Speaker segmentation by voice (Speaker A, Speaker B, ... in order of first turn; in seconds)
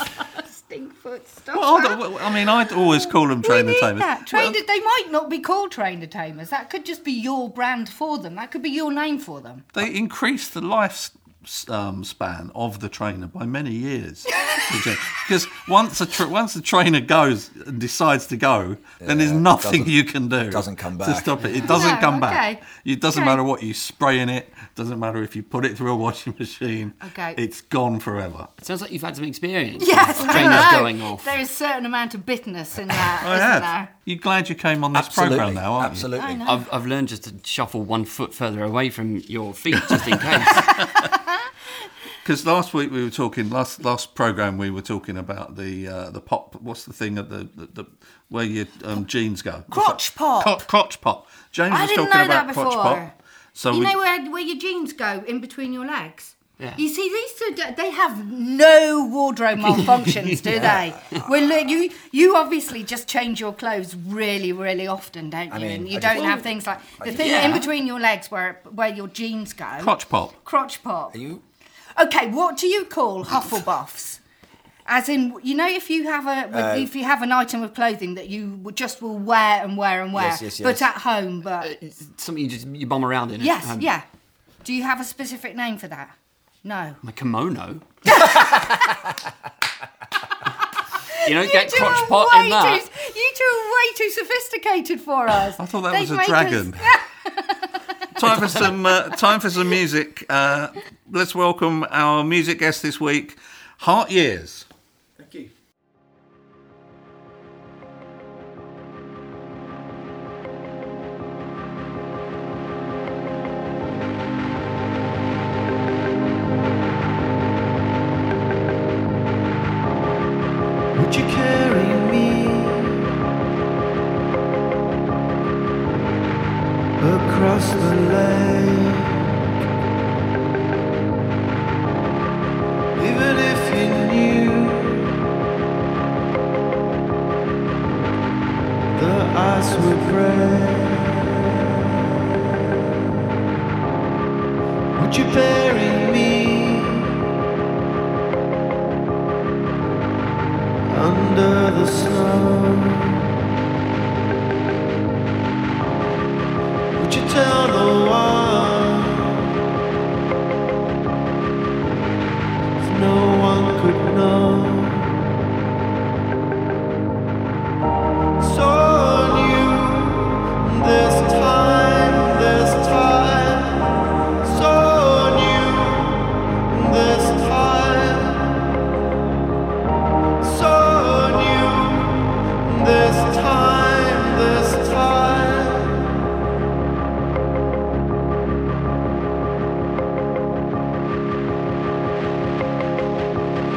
Speaker A: 0.4-9.7, 14.3-14.8, 21.6-23.4, 27.0-27.4, 29.8-33.9, 36.1-36.6, 49.7-50.6, 51.7-53.1, 53.7-71.1, 72.0-74.2, 74.8-81.7, 83.4-84.0, 84.6-87.0, 88.0-89.0, 91.1-97.8
Speaker B: 1.5-4.6, 9.7-28.5, 30.2-30.7, 33.2-36.1, 40.5-41.0, 42.2-53.0, 53.5-53.9, 69.8-70.3, 95.6-96.9, 98.1-104.7
Speaker C: 19.0-19.9, 20.5-21.4, 34.9-36.4, 60.5-61.2, 65.5-67.6, 71.1-71.4, 76.5-76.9, 80.1-80.9
Speaker D: 21.4-21.6, 28.6-31.4, 36.4-40.8, 67.0-67.7, 81.6-83.9, 87.0-87.8, 91.1-92.8
Speaker E: 120.9-123.1, 127.0-129.3, 133.0-135.2, 138.9-142.1, 144.9-147.2, 150.8-153.3, 156.9-159.5, 162.8-165.3, 168.4-173.8, 174.4-178.6, 180.4-186.0